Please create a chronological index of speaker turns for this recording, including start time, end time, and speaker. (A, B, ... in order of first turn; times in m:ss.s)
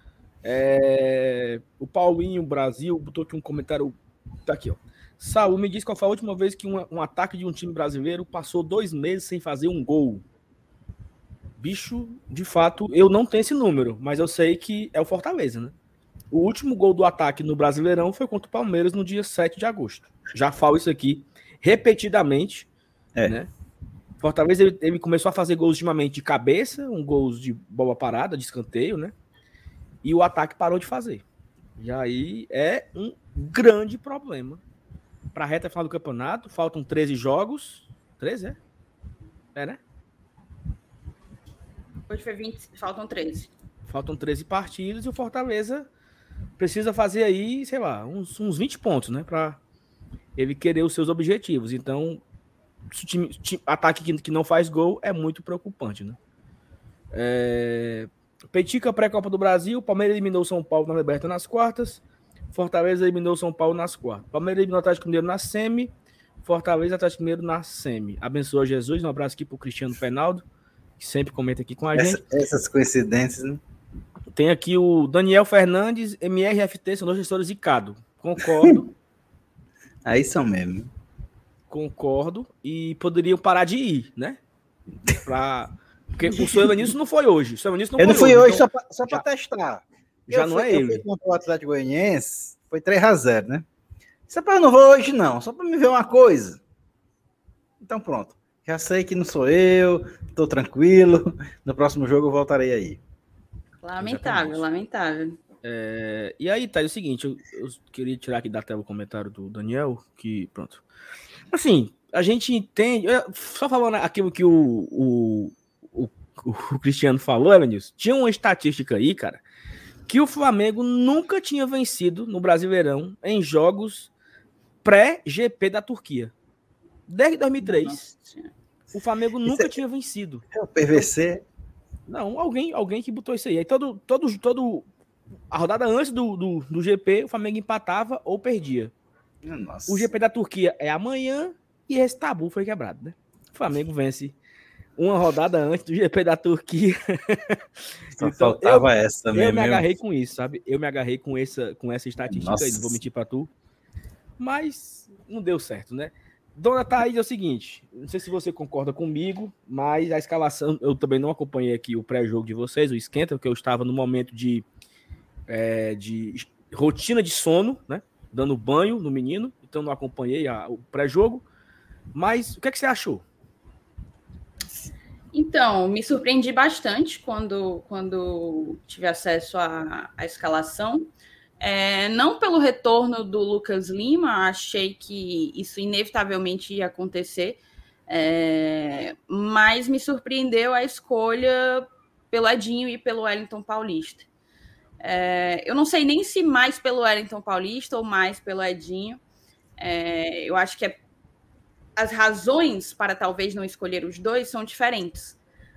0:00.4-0:10.2 A
0:11.6-0:15.7 A
0:16.3-0:22.7 A
0:24.2-0:29.1 A
0:30.0-0:31.2 A
0:31.8-0:34.6 A
0:35.3-0:38.6 A
0:39.5-0:39.8 A
0:42.1-0:43.5 B
0:43.9-0:45.9 A
0:46.6-0:49.6 A
0:50.4-0:52.2 A
0:52.9-0:56.2 A
0:57.1-1:02.0 A
1:02.5-1:05.9 A
1:06.4-1:10.4 A
1:11.0-1:12.2 A
1:11.9-1:13.6 C
1:14.3-1:18.9 A
1:20.0-1:20.9 C
1:21.7-1:24.4 A
1:25.2-1:29.2 A
1:26.3-1:26.9 C
1:28.0-1:33.6 C
1:30.3-1:31.0 A
1:34.3-1:36.6 C
1:37.8-1:43.0 C
1:43.8-1:45.4 B
1:44.0-1:44.6 A
1:45.6-1:50.8 A
1:51.5-1:59.4 A
2:00.1-2:04.1 A
2:04.8-2:06.3 A
2:07.1-2:08.1 A
2:08.1-2:08.5 B
2:08.9-2:10.4 A
2:09.5-2:09.7 C
2:10.5-2:11.4 C
2:12.1-2:14.8 A
2:15.5-2:18.9 A
2:19.4-2:20.1 C
2:19.9-2:24.4 A
2:25.0-2:27.6 A
2:28.2-2:29.8 C
2:28.2-2:33.5 A
2:32.3-2:32.9 C
2:34.4-2:44.6 A
2:45.5-2:51.4 A
2:52.1-2:53.2 A
2:55.3-3:01.1 B
3:01.6-3:14.3 B
3:15.0-3:19.2 B
3:19.8-3:21.0 B
3:22.0-3:25.4 B